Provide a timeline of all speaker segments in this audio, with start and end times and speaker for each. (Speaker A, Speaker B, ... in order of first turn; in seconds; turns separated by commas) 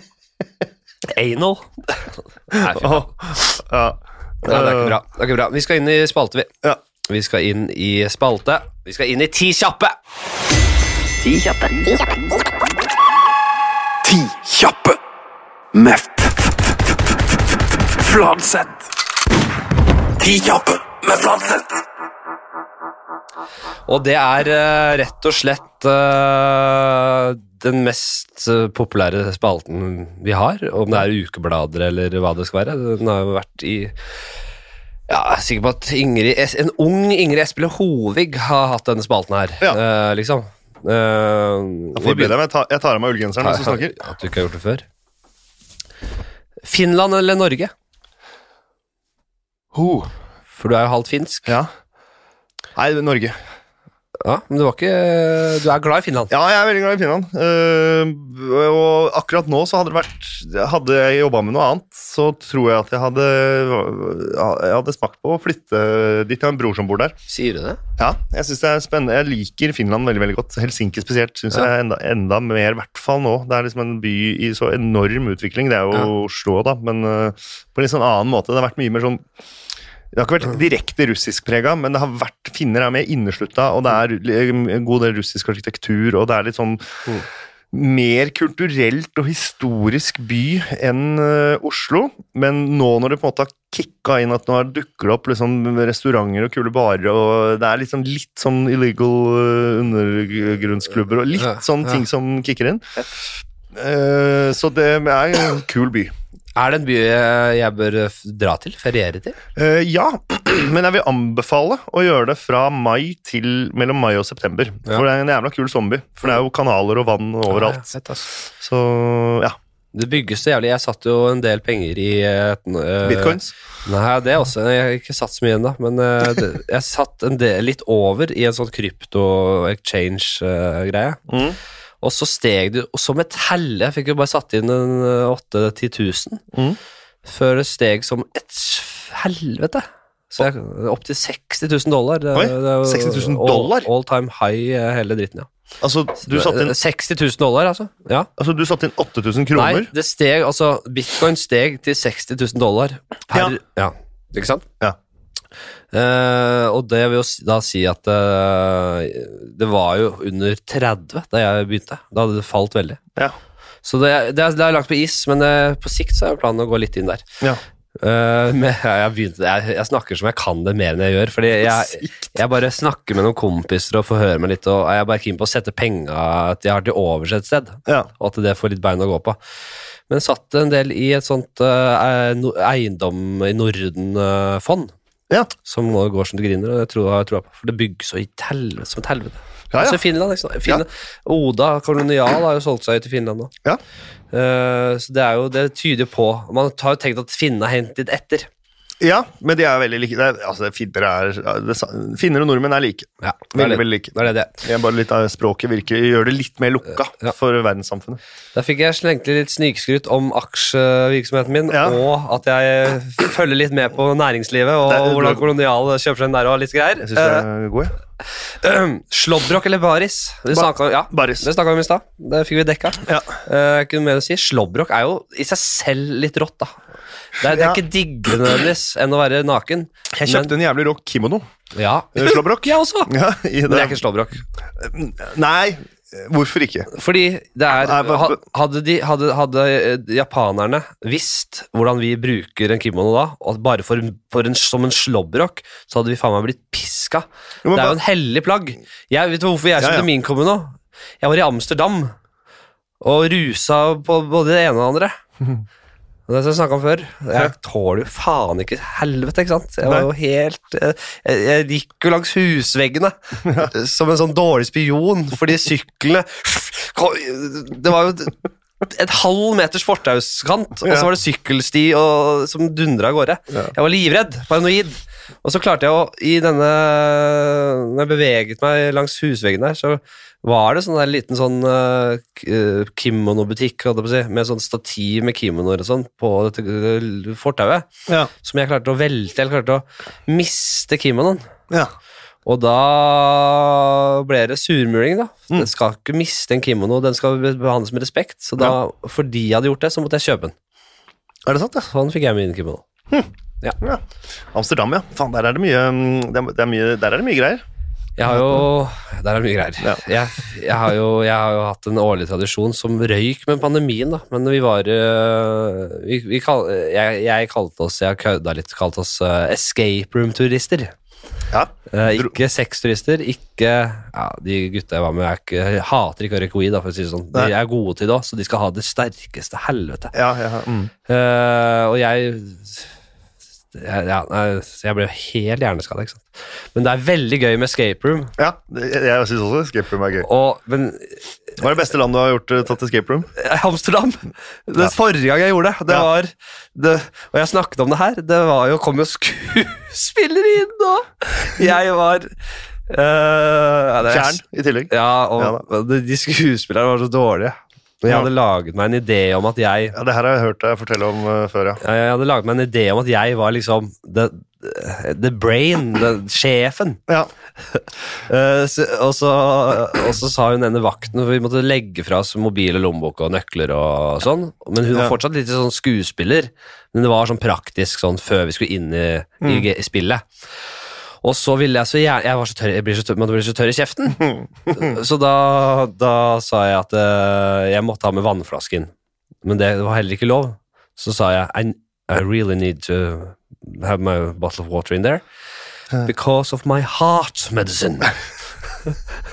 Speaker A: 1.1-3.1, Speaker B: 2.5-5.0, Speaker A: 4.5-6.5, Speaker A: 7.0-10.0, Speaker C: 11.2-12.0, Speaker C: 14.0-15.0, Speaker C: 15.7-17.0, Speaker C: 17.9-18.9, Speaker C: 20.2-21.7, Speaker A: 23.9-33.9, Speaker A: 35.1-42.3, Speaker B: 42.0-44.0, Speaker A: 43.4-44.9, Speaker A: 46.6-47.7, Speaker B: 49.7-50.1, Speaker A: 50.6-51.6, Speaker B: 52.8-53.4, Speaker A: 54.2-56.3, Speaker B: 56.3-67.2, Speaker A: 67.3-67.8, Speaker B: 68.0-79.2, Speaker B: 80.1-86.8, Speaker B: 87.7-103.0, Speaker A: 101.4-102.0, Speaker B: 103.7-106.1, Speaker A: 106.6-109.4, Speaker B: 109.6-117.9, Speaker A: 117.5-118.3, Speaker B: 118.6-119.6, Speaker A: 119.9-131.2, Speaker B: 123.0-123.5, Speaker B: 131.3-131.6, Speaker A: 132.0-136.4, Speaker A: 137.3-145.5, Speaker B: 142.3-143.9, Speaker B: 145.8-146.8, Speaker A: 146.2-148.3, Speaker B: 148.4-149.9, Speaker A: 149.6-154.7, Speaker A: 155.9-163.0, Speaker A: 163.8-167.2, Speaker A: 168.0-179.4, Speaker B: 171.7-172.3, Speaker A: 180.1-184.9, Speaker A: 185.6-193.5, Speaker B: 189.7-190.0, Speaker A: 194.3-198.5, Speaker B: 199.0-208.2, Speaker A: 203.2-204.5, Speaker A: 208.5-217.5, Speaker B: 211.7-212.0, Speaker B: 214.9-215.4, Speaker B: 217.0-217.9, Speaker A: 218.6-226.8, Speaker B: 220.5-221.5, Speaker B: 223.0-223.3, Speaker A: 227.4-230.5, Speaker B: 227.4-227.8, Speaker B: 230.1-231.4, Speaker A: 231.8-233.1, Speaker B: 232.2-234.0, Speaker A: 233.7-234.4, Speaker B: 234.8-236.9, Speaker A: 236.9-252.1, Speaker B: 237.8-238.4, Speaker B: 247.6-248.0, Speaker B: 249.8-250.1, Speaker A: 253.0-255.2, Speaker A: 256.3-287.9, Speaker A: 288.4-291.4, Speaker A: 292.4-300.5, Speaker B: 301.5-301.9, Speaker A: 301.9-302.9, Speaker B: 304.5-307.6, Speaker A: 308.2-320.9, Speaker B: 321.5-322.4, Speaker A: 321.9-330.1, Speaker B: 330.1-330.9, Speaker A: 331.1-332.9, Speaker A: 333.7-338.3, Speaker B: 338.4-340.3, Speaker A: 340.2-341.2, Speaker B: 341.6-343.3, Speaker A: 343.4-352.3, Speaker A: 352.9-360.0, Speaker B: 354.1-355.6, Speaker B: 359.9-361.8, Speaker A: 361.8-367.0, Speaker A: 367.7-380.2, Speaker B: 379.4-379.7, Speaker A: 381.2-388.9, Speaker B: 384.2-385.0, Speaker A: 389.4-395.2, Speaker A: 396.0-398.2